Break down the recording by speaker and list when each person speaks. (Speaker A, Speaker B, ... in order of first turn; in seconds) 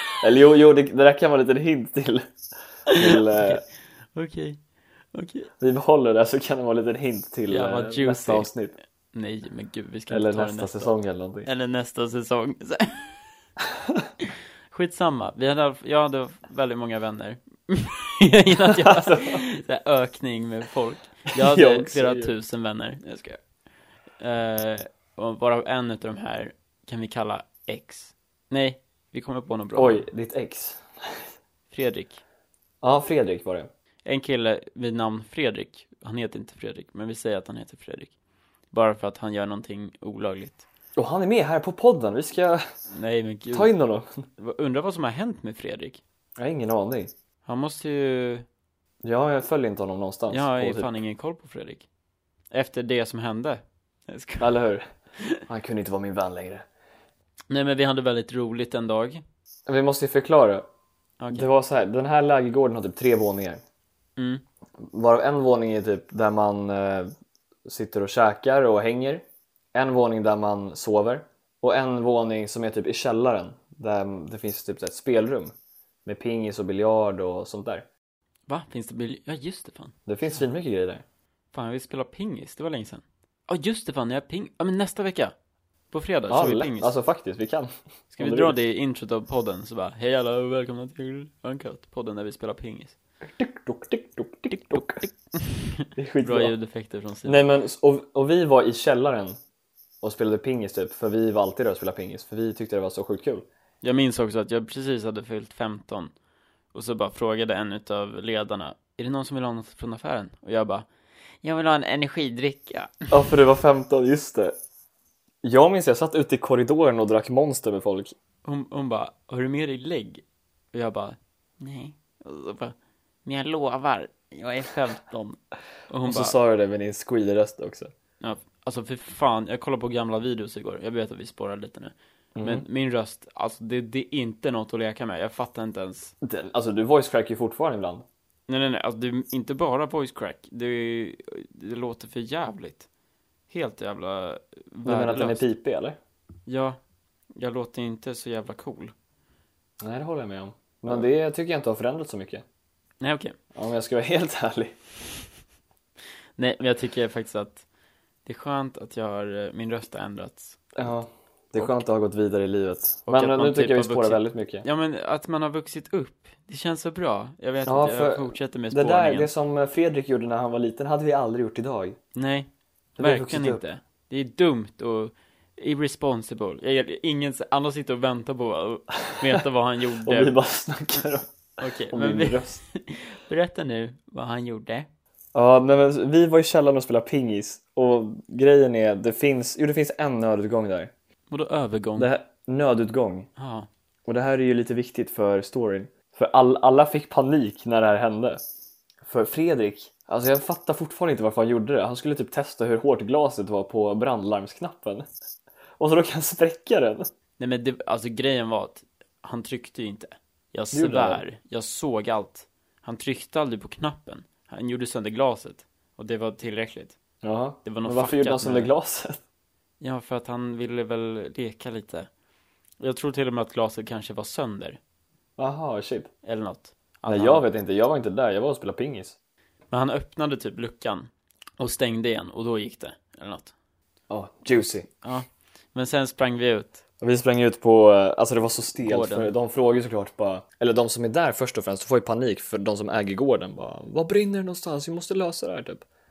Speaker A: 0.2-2.3, 2.9-3.6, 5.6-8.8, 10.1-11.5, 18.6-19.4, 21.3-22.3, 29.8-31.3, 32.8-33.7, 41.0-42.6, 43.5-44.2, 46.4-47.1, 49.0-50.9, 54.4-54.9, 55.5-56.6, 59.7-60.7, 61.3-63.6, 64.8-67.1, 67.7-75.5, 76.0-77.9, 80.1-81.0, 86.3-88.6, 93.4-95.1, 96.0-96.5, 97.3-99.4, 100.0-103.5, 113.1-114.5, 115.4-118.1, 126.0-127.9, 132.4-132.7, 136.2-138.1, 144.8-146.0, 149.8-152.4, 153.6-154.8, 160.8-164.7, 167.7-172.0, 173.0-173.6, 180.0-181.3, 181.9-182.6, 185.3-190.9, 192.0-193.3, 194.1-198.4, 199.0-205.1, 205.8-207.1, 210.7-211.2, 217.2-219.2, 225.4-226.1, 227.1-229.2, 234.1-234.9, 237.0-245.8
Speaker B: 2.9-4.6, 5.1-5.5, 7.5-8.5, 9.1-10.9, 11.4-13.2, 14.2-23.4, 24.2-30.1, 31.7-32.2, 34.0-38.1, 38.7-40.6, 42.9-43.7, 44.4-46.0, 47.5-48.5, 50.3-51.9, 52.5-54.6, 57.5-59.2, 61.2-61.5, 64.2-64.4, 78.5-80.0, 81.5-85.3, 85.9-86.9, 88.1-93.0, 94.7-97.4, 103.8-106.1, 106.7-110.9, 111.4-113.1, 118.4-126.4, 128.2-136.1, 138.5-142.9, 143.5-145.4, 146.5-146.8, 147.4-148.9, 153.0-153.4, 156.4-157.7, 158.2-160.9, 163.1-169.3, 172.2-180.4, 181.6-184.9, 191.3-192.1, 193.4-193.7, 207.4-217.0, 217.7-218.7, 219.8-222.1, 222.8-224.8, 226.2-227.5, 229.7-233.5, 235.0-236.8, 238.8-239.3